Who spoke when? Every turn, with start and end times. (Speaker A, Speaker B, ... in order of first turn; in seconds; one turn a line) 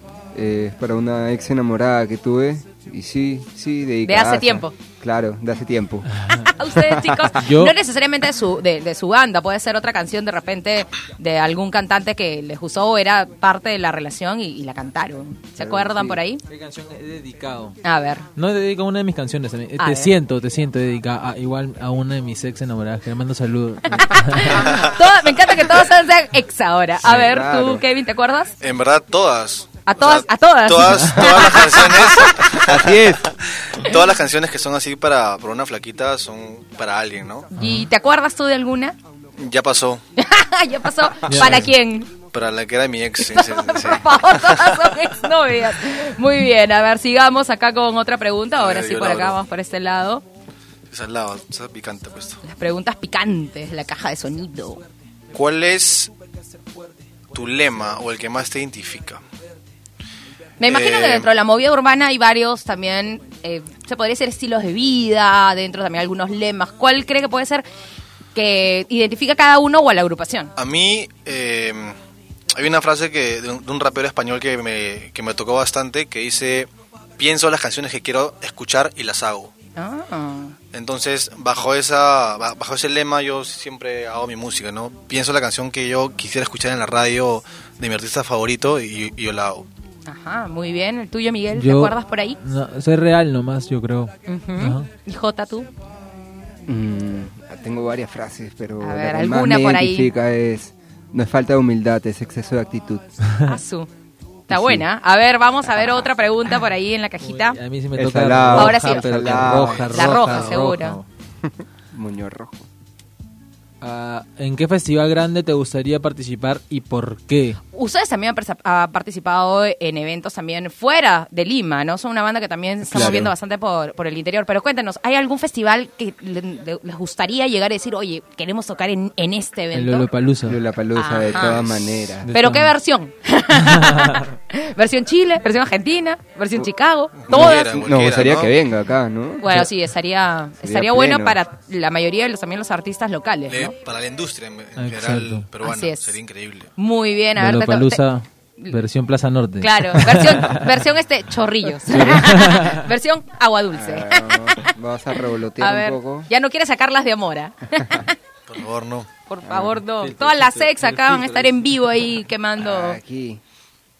Speaker A: 0.3-6.1
Speaker B: 4.0-4.7
Speaker C: 6.1-6.5
Speaker B: 6.5-16.4
Speaker A: 6.7-7.4
Speaker C: 7.3-7.8
Speaker A: 15.6-16.2
Speaker C: 16.5-17.8
Speaker B: 17.8-18.3
Speaker C: 18.4-24.8
Speaker B: 19.8-20.1
Speaker B: 23.9-28.5
Speaker D: 24.6-25.0
Speaker A: 27.0-27.8
Speaker D: 28.6-37.5
Speaker B: 29.9-32.6
Speaker A: 32.6-33.3
Speaker B: 37.5-39.0
Speaker C: 37.6-37.9
Speaker D: 39.4-40.0
Speaker B: 40.2-42.1
Speaker C: 41.3-41.7
Speaker D: 42.3-44.8
Speaker B: 43.2-50.2
Speaker D: 48.6-49.4
Speaker D: 50.9-52.4
Speaker B: 52.4-54.8
Speaker D: 55.3-56.1
Speaker D: 57.3-59.2
Speaker B: 60.6-67.7
Speaker D: 60.7-61.3
Speaker B: 68.3-70.5
Speaker D: 70.6-72.0
Speaker D: 72.5-79.5
Speaker B: 79.8-80.6
Speaker D: 80.7-89.7
Speaker B: 90.1-92.4
Speaker C: 91.5-94.9
Speaker B: 94.3-95.7
Speaker A: 96.7-103.0
Speaker B: 98.8-100.1
Speaker B: 103.4-103.9
Speaker A: 104.5-104.8
Speaker B: 104.5-107.6
Speaker C: 107.2-111.1
Speaker A: 108.0-109.9
Speaker B: 108.5-111.0
Speaker D: 109.6-110.6
Speaker A: 111.4-112.7
Speaker C: 113.8-117.6
Speaker B: 117.7-130.1
Speaker A: 122.9-123.3
Speaker C: 129.7-130.6
Speaker A: 130.4-132.3
Speaker B: 130.9-131.6
Speaker D: 131.2-131.9
Speaker C: 132.2-132.7
Speaker B: 132.3-137.9
Speaker C: 133.6-134.3
Speaker D: 137.2-138.5
Speaker A: 137.3-139.7
Speaker B: 139.4-143.7
Speaker A: 140.6-141.4
Speaker D: 143.5-146.7
Speaker C: 144.8-145.5
Speaker B: 145.6-146.2
Speaker B: 146.8-148.0
Speaker C: 147.4-150.7
Speaker B: 149.6-154.7
Speaker C: 151.9-152.8
Speaker A: 153.7-156.3
Speaker B: 155.6-158.2
Speaker D: 158.5-159.1
Speaker B: 159.3-163.0
Speaker A: 159.4-159.8
Speaker C: 160.0-161.6
Speaker A: 162.6-163.4